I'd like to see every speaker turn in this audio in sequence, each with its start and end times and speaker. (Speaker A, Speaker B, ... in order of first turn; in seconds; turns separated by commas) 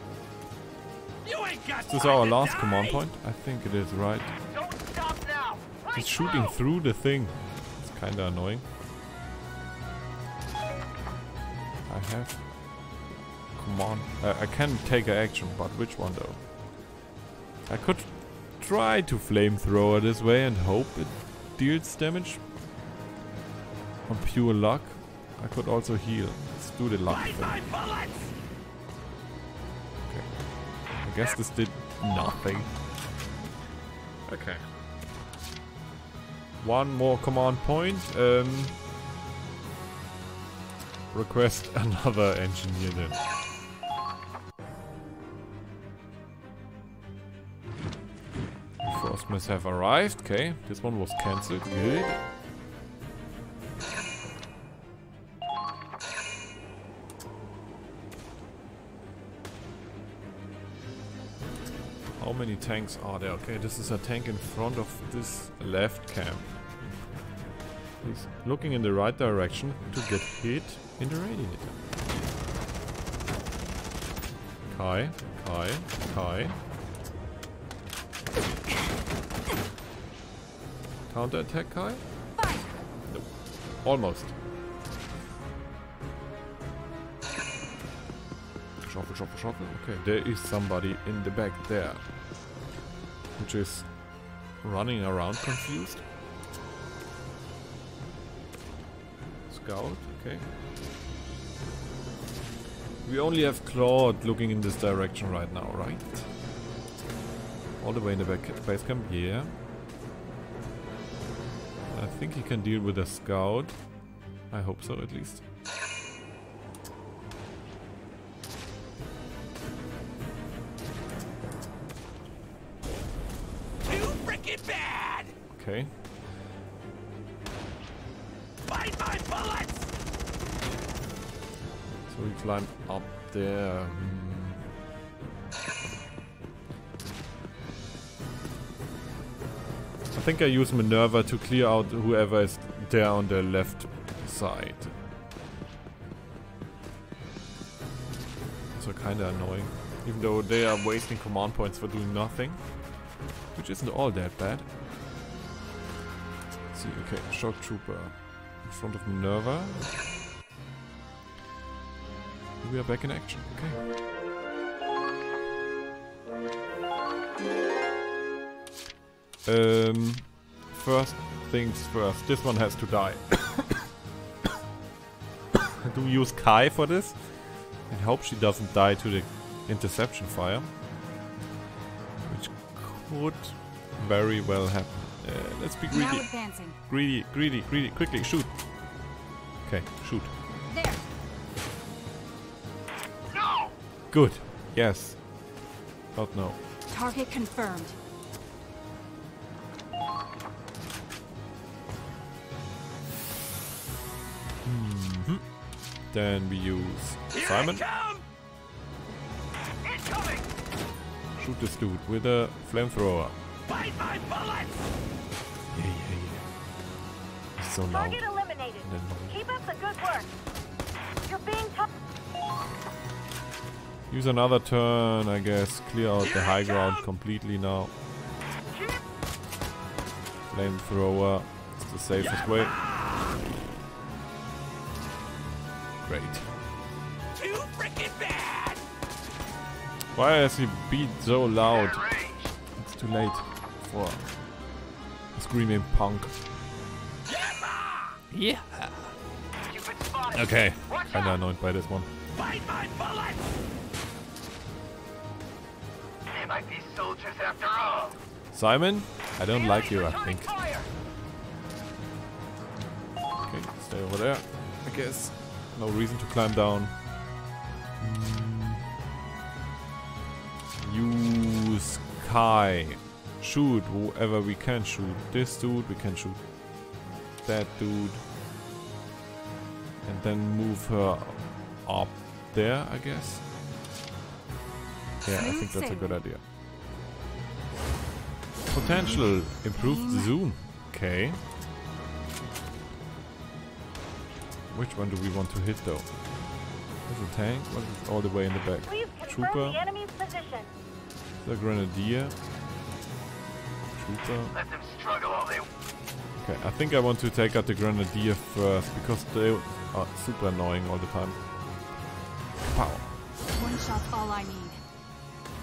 Speaker A: 1.2-3.0, Speaker B: 1.8-4.3, Speaker C: 4.4-6.6, Speaker B: 5.9-8.6, Speaker B: 11.8-12.6, Speaker B: 13.5-16.5, Speaker B: 17.6-22.4, Speaker B: 24.1-27.8, Speaker A: 27.1-28.3, Speaker B: 30.0-32.7, Speaker B: 34.3-34.6, Speaker B: 36.6-38.8, Speaker B: 41.1-43.2, Speaker B: 48.8-52.2, Speaker B: 62.1-66.6, Speaker B: 68.0-71.8, Speaker B: 74.7-76.6, Speaker B: 81.1-82.0, Speaker D: 82.3-82.8, Speaker B: 83.1-84.3, Speaker B: 88.8-92.0, Speaker B: 93.3-94.0, Speaker B: 94.6-96.0, Speaker B: 99.5-100.5, Speaker B: 103.0-106.3, Speaker B: 107.8-109.5, Speaker B: 111.9-113.9, Speaker B: 114.5-115.4, Speaker A: 123.8-125.3, Speaker B: 125.5-125.9, Speaker A: 128.7-129.8, Speaker B: 132.1-134.7, Speaker B: 140.1-144.9, Speaker B: 148.7-152.9, Speaker B: 153.5-154.7, Speaker B: 156.7-160.0, Speaker B: 162.6-163.8, Speaker B: 169.4-173.8, Speaker B: 175.8-180.7, Speaker B: 182.2-188.6, Speaker D: 185.9-186.8, Speaker B: 189.6-190.3, Speaker D: 190.7-191.0, Speaker C: 193.3-193.8, Speaker B: 194.1-195.2, Speaker B: 196.1-196.6, Speaker D: 196.9-197.9, Speaker B: 204.6-207.8, Speaker A: 207.3-208.2, Speaker C: 209.8-210.5, Speaker B: 211.4-213.3, Speaker A: 213.7-214.8, Speaker B: 215.7-216.4, Speaker B: 217.6-218.2, Speaker E: 217.9-220.3, Speaker B: 218.8-219.4, Speaker E: 221.2-221.9, Speaker B: 224.1-227.9, Speaker B: 230.5-232.8, Speaker A: 232.7-233.1, Speaker B: 236.0-236.5, Speaker A: 237.3-238.8, Speaker B: 240.1-242.0, Speaker C: 241.6-242.5, Speaker B: 242.8-244.3, Speaker B: 245.3-246.3, Speaker A: 247.2-248.2, Speaker B: 248.3-249.1, Speaker C: 249.7-251.4, Speaker B: 250.3-252.1, Speaker A: 252.3-253.4, Speaker C: 256.3-258.1, Speaker B: 258.5-260.5, Speaker C: 259.5-260.9, Speaker B: 263.4-267.0, Speaker B: 268.0-268.8, Speaker B: 270.8-278.2, Speaker B: 280.0-283.4, Speaker B: 285.2-286.4, Speaker D: 285.3-286.2, Speaker B: 288.7-291.4, Speaker D: 288.8-290.3, Speaker B: 294.7-296.2, Speaker B: 297.0-299.8, Speaker E: 298.9-300.7, Speaker B: 301.4-302.4, Speaker B: 303.9-304.5, Speaker C: 304.5-305.7, Speaker B: 306.4-311.4, Speaker B: 312.6-313.1, Speaker D: 313.5-314.8